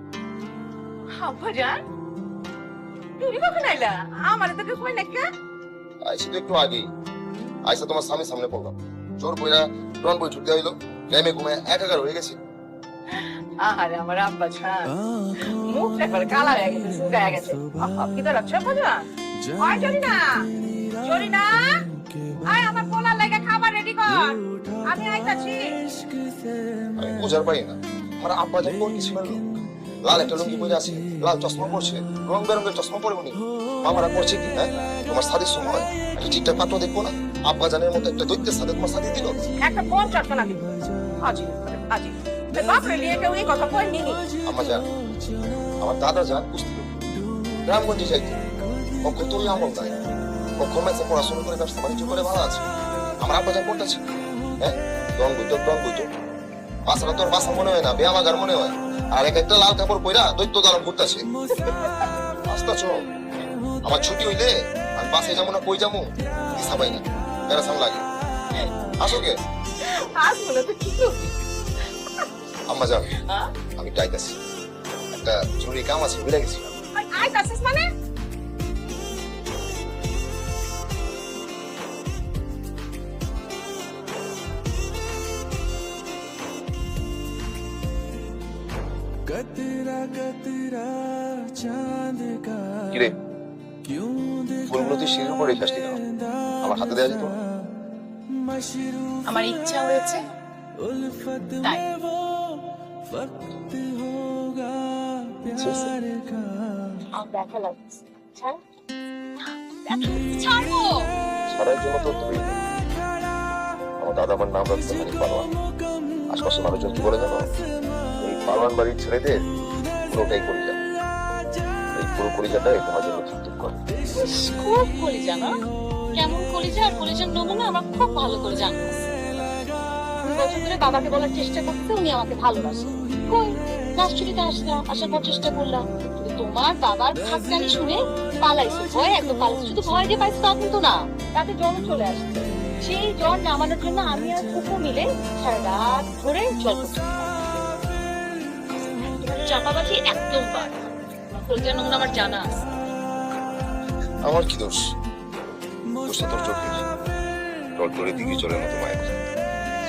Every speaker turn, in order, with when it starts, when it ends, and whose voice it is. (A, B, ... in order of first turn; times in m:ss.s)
0:01.2-0:01.8 A
0:03.2-0:05.2 A
0:06.0-0:06.9 B
0:07.7-0:12.4 B
0:13.1-0:19.0 A
0:19.6-0:20.5 A
0:21.0-0:21.8 A
0:22.5-0:25.8 A
0:27.0-0:29.4 B
0:30.0-0:39.4 B
0:39.6-0:40.6 A
0:41.2-0:44.2 A
0:44.4-0:44.8 B
0:45.8-0:46.9 B
0:47.6-0:48.4 B
0:49.0-0:49.9 B
0:50.6-0:52.6 B
0:53.2-0:54.0 B
0:54.6-0:56.1 B
0:56.8-1:01.3 B
1:01.6-1:01.9 A
1:02.5-1:03.0 B
1:03.8-1:08.0 B
1:09.0-1:09.4 B
1:09.8-1:11.3 A
1:12.7-1:13.2 B
1:13.2-1:13.5 A
1:13.8-1:14.4 B
1:15.1-1:16.7 B
1:16.9-1:17.9 A
1:32.9-1:33.2 B
1:34.6-1:36.0 B
1:36.6-1:37.4 B
1:39.2-1:40.2 C
1:41.6-1:41.9 C
1:45.5-1:46.0 B
1:47.1-1:48.6 C
1:49.9-1:51.1 C
1:51.5-1:52.6 B
1:54.0-1:55.5 B
1:56.3-1:57.5 B
1:58.2-1:59.4 B
2:00.1-2:00.8 B
2:02.0-2:03.8 B
2:04.1-2:05.6 C
2:06.1-2:08.9 C
2:10.2-2:27.6 C
2:29.0-2:30.8 C
2:31.3-2:32.6 C
2:34.2-2:34.8 B
2:36.0-2:36.8 B
2:37.8-2:39.1 B